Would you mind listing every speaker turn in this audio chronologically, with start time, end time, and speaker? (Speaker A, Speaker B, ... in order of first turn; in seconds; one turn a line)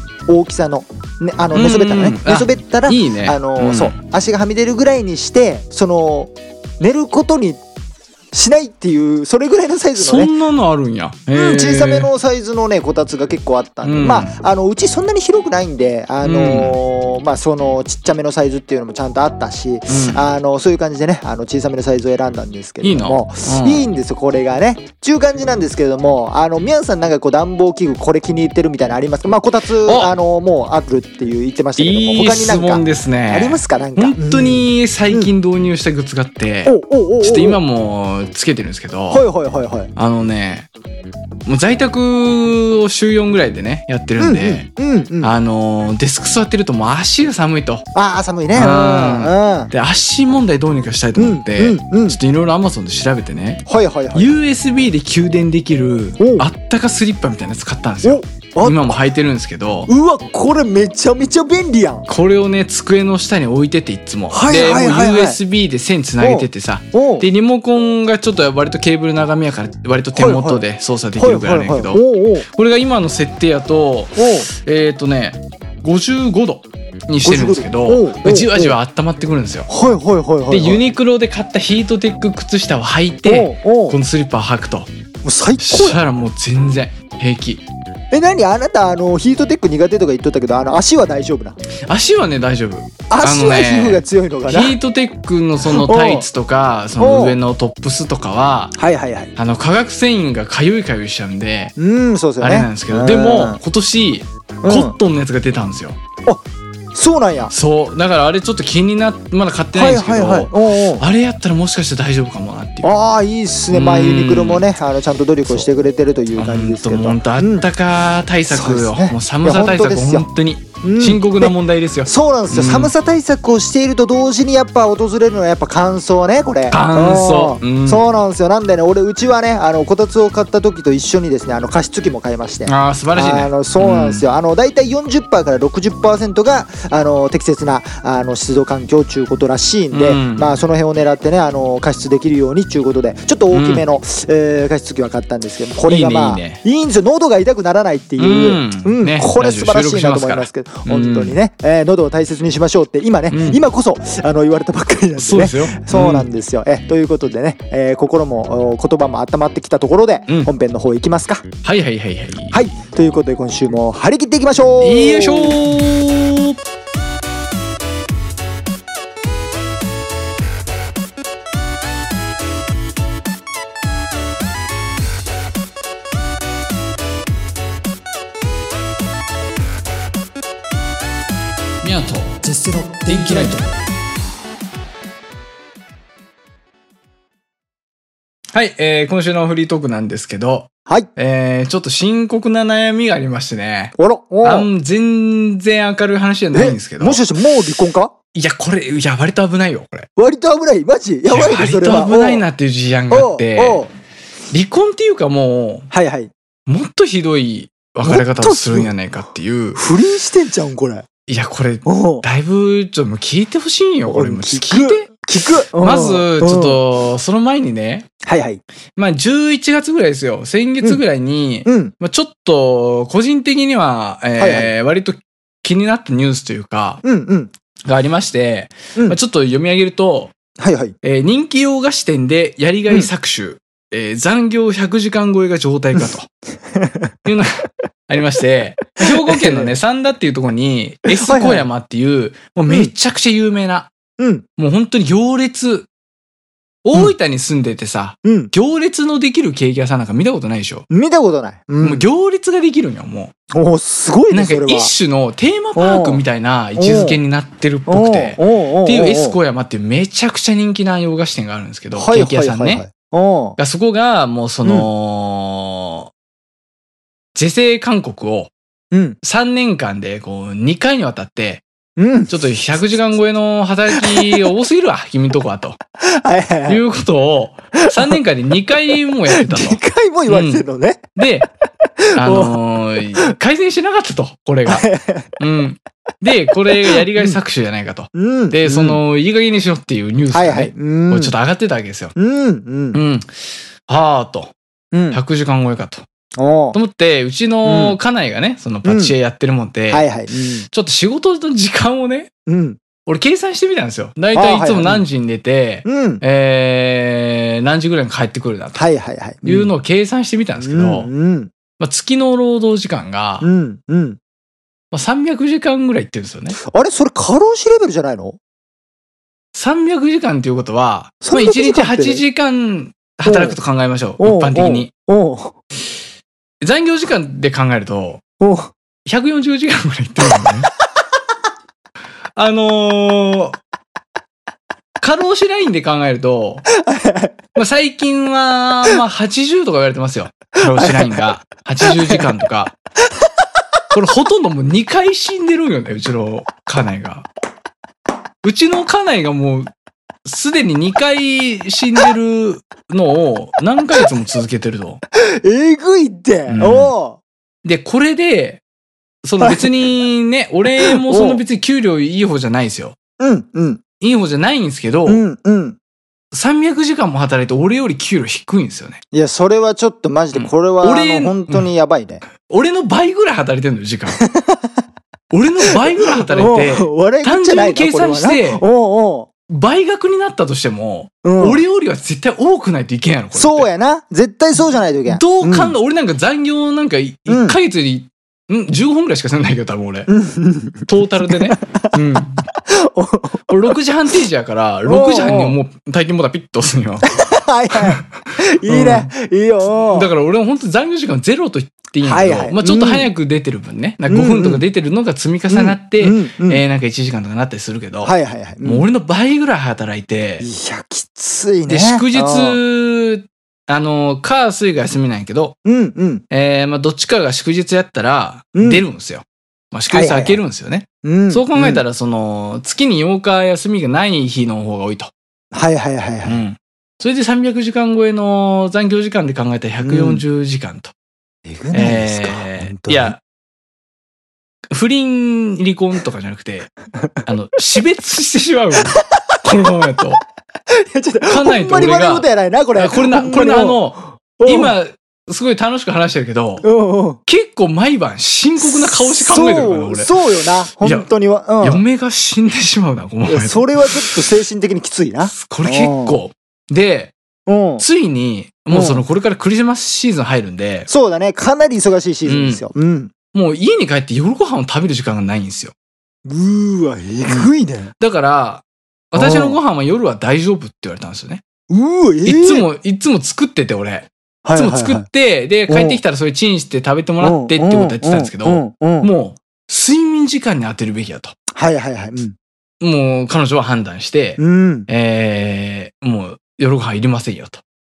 Speaker A: 0.3-7.6
Speaker B: 1.5-3.9
Speaker A: 8.3-10.3
Speaker B: 10.0-12.1
Speaker A: 11.3-35.3
Speaker B: 13.8-14.3
Speaker B: 16.2-16.8
Speaker B: 19.9-20.2
Speaker B: 22.8-23.9
Speaker B: 29.8-30.1
Speaker B: 31.8-39.2
Speaker A: 36.7-37.6
Speaker A: 39.1-39.9
Speaker B: 40.0-40.7
Speaker B: 41.5-44.7
Speaker A: 44.2-45.4
Speaker B: 45.2-47.8
Speaker A: 47.9-49.7
Speaker B: 48.5-59.9
Speaker A: 51.2-52.2
Speaker A: 53.7-54.3
Speaker A: 56.2-56.5
Speaker A: 58.0-59.0
Speaker A: 59.9-62.1
Speaker B: 62.1-79.7
Speaker A: 64.3-65.4
Speaker A: 66.2-67.3
Speaker A: 70.1-70.6
Speaker A: 71.2-72.5
Speaker A: 74.2-74.5
Speaker A: 77.2-78.8
Speaker A: 79.7-80.9
Speaker B: 80.5-84.9
Speaker A: 83.2-84.0
Speaker A: 85.2-86.0
Speaker B: 85.6-87.6
Speaker A: 88.1-91.6
Speaker B: 91.9-98.7
Speaker A: 93.1-94.8
Speaker A: 95.7-96.3
Speaker A: 97.0-97.4
Speaker A: 98.8-99.3
Speaker B: 99.3-101.7
Speaker A: 101.8-103.6
Speaker B: 102.4-106.0
Speaker A: 104.6-104.9
Speaker A: 106.9-107.5
Speaker B: 107.5-112.9
Speaker A: 109.7-111.0
Speaker A: 112.8-117.7
Speaker B: 113.7-114.7
Speaker B: 116.4-122.9
Speaker A: 118.5-120.2
Speaker A: 120.8-161.4
Speaker B: 126.7-128.1
Speaker B: 132.7-134.2
Speaker B: 139.9-140.5
Speaker B: 143.5-143.9
Speaker B: 145.9-146.6
Speaker B: 148.2-151.4
Speaker B: 153.3-153.6
Speaker B: 155.2-156.3
Speaker B: 161.6-162.6
Speaker A: 162.5-165.6
Speaker B: 164.8-166.6
Speaker B: 181.8-182.4
Speaker A: 182.4-183.6
Speaker B: 183.1-183.6
Speaker B: 188.5-197.2
Speaker A: 194.0-194.7
Speaker A: 196.5-198.1
Speaker B: 198.3-200.1
Speaker A: 200.2-202.4
Speaker B: 201.2-203.9
Speaker A: 203.1-203.9
Speaker B: 204.5-205.9
Speaker A: 205.9-206.3
Speaker B: 206.7-209.8
Speaker A: 208.1-208.9
Speaker A: 209.8-211.1
Speaker B: 211.3-215.1
Speaker A: 211.9-212.2
Speaker A: 214.1-216.8
Speaker B: 215.8-218.1
Speaker A: 218.2-218.6
Speaker B: 218.9-227.0
Speaker A: 221.6-221.9
Speaker A: 224.4-224.7
Speaker A: 227.0-227.5
Speaker B: 227.8-230.3
Speaker A: 230.6-230.9
Speaker B: 231.0-236.3
Speaker A: 236.7-237.2
Speaker B: 237.2-243.9
Speaker A: 238.9-239.7
Speaker A: 241.1-241.7
Speaker A: 244.2-244.4
Speaker B: 244.6-245.9
Speaker B: 246.8-250.9
Speaker A: 248.2-248.5
Speaker A: 250.9-252.1
Speaker B: 251.8-253.3
Speaker A: 253.5-254.9
Speaker B: 254.3-262.8
Speaker A: 255.8-256.2
Speaker A: 256.8-257.2
Speaker A: 257.9-259.4
Speaker A: 261.9-263.6
Speaker B: 263.6-266.1
Speaker B: 267.3-268.5
Speaker A: 268.9-269.2
Speaker B: 269.2-271.6
Speaker A: 272.0-273.0
Speaker B: 272.3-275.8
Speaker A: 273.9-274.5
Speaker A: 276.0-276.8
Speaker B: 276.7-280.6
Speaker A: 277.7-278.2
Speaker A: 279.2-281.1
Speaker B: 281.1-281.5
Speaker A: 282.0-282.6
Speaker B: 282.1-284.8
Speaker A: 284.6-285.4
Speaker B: 285.4-292.1
Speaker A: 286.8-287.4
Speaker A: 288.1-289.0
Speaker A: 290.3-291.3
Speaker A: 292.1-293.0
Speaker B: 292.9-294.5
Speaker A: 294.9-295.2
Speaker B: 295.1-296.1
Speaker A: 296.4-296.8
Speaker B: 296.7-300.1
Speaker A: 297.6-298.0
Speaker A: 298.8-299.1
Speaker A: 299.9-300.7
Speaker B: 300.7-302.3
Speaker A: 302.4-302.8
Speaker B: 303.1-308.8
Speaker A: 304.3-305.0
Speaker A: 305.8-306.2
Speaker A: 308.8-309.7
Speaker B: 309.4-311.1
Speaker A: 310.6-311.5
Speaker B: 311.8-313.4
Speaker A: 313.4-314.2
Speaker B: 314.9-316.6
Speaker A: 316.6-318.4
Speaker B: 319.5-324.9
Speaker A: 321.2-322.2
Speaker A: 323.2-323.6
Speaker A: 324.2-325.6
Speaker B: 326.6-328.2
Speaker A: 328.4-328.7
Speaker B: 329.1-330.7
Speaker A: 330.2-330.5
Speaker B: 332.3-333.6
Speaker B: 335.0-336.7
Speaker A: 336.8-337.3
Speaker B: 337.6-342.7
Speaker A: 340.6-341.2
Speaker A: 341.8-342.2
Speaker B: 343.9-347.3
Speaker B: 348.4-349.7
Speaker B: 350.2-355.0
Speaker A: 355.1-357.2
Speaker B: 356.5-356.9
Speaker B: 357.6-358.6
Speaker B: 359.2-362.9
Speaker A: 359.4-359.8
Speaker A: 360.7-361.4
Speaker A: 363.2-363.8
Speaker B: 364.0-365.2
Speaker A: 365.1-365.8
Speaker B: 366.3-369.0
Speaker A: 369.1-372.2
Speaker B: 370.3-371.7
Speaker B: 372.3-374.2
Speaker A: 374.1-374.7
Speaker B: 375.3-378.6
Speaker A: 375.6-379.3
Speaker B: 379.5-383.7
Speaker A: 381.2-381.6
Speaker A: 383.3-385.7
Speaker B: 385.1-390.1
Speaker A: 387.3-387.6
Speaker A: 390.1-392.0
Speaker B: 390.9-392.4
Speaker A: 392.6-393.7
Speaker B: 393.5-397.1
Speaker A: 394.9-395.6
Speaker A: 397.1-400.1
Speaker B: 397.7-398.1
Speaker B: 398.7-399.1
Speaker B: 399.8-408.1
Speaker A: 402.0-403.1
Speaker A: 404.1-404.6
Speaker A: 405.5-406.6
Speaker A: 408.0-408.9
Speaker B: 408.6-410.4
Speaker A: 410.4-412.6
Speaker B: 411.7-415.6
Speaker A: 415.6-416.2
Speaker B: 416.3-425.1
Speaker A: 418.5-418.8
Speaker A: 419.9-420.4
Speaker A: 421.0-421.8
Speaker A: 425.5-426.4
Speaker B: 426.2-430.9
Speaker A: 429.8-430.2
Speaker A: 431.5-433.2
Speaker B: 431.7-433.2
Speaker B: 434.7-436.7
Speaker B: 437.2-440.2
Speaker A: 440.8-444.8
Speaker B: 441.3-446.6
Speaker A: 446.6-447.2
Speaker B: 447.2-450.1
Speaker A: 448.6-451.8
Speaker B: 450.8-451.1
Speaker B: 451.6-454.2
Speaker A: 453.2-456.2
Speaker B: 455.2-457.1
Speaker A: 457.5-457.9
Speaker B: 457.8-460.9
Speaker A: 458.7-459.0
Speaker A: 460.9-463.1
Speaker B: 462.2-462.6
Speaker B: 463.3-465.7
Speaker A: 466.2-467.9
Speaker B: 467.2-471.4
Speaker A: 469.1-469.6
Speaker A: 471.7-472.7
Speaker B: 472.2-481.3
Speaker A: 474.4-475.1
Speaker A: 475.7-476.0
Speaker A: 477.2-479.1
Speaker A: 481.5-482.4
Speaker B: 482.8-487.6
Speaker A: 484.4-484.9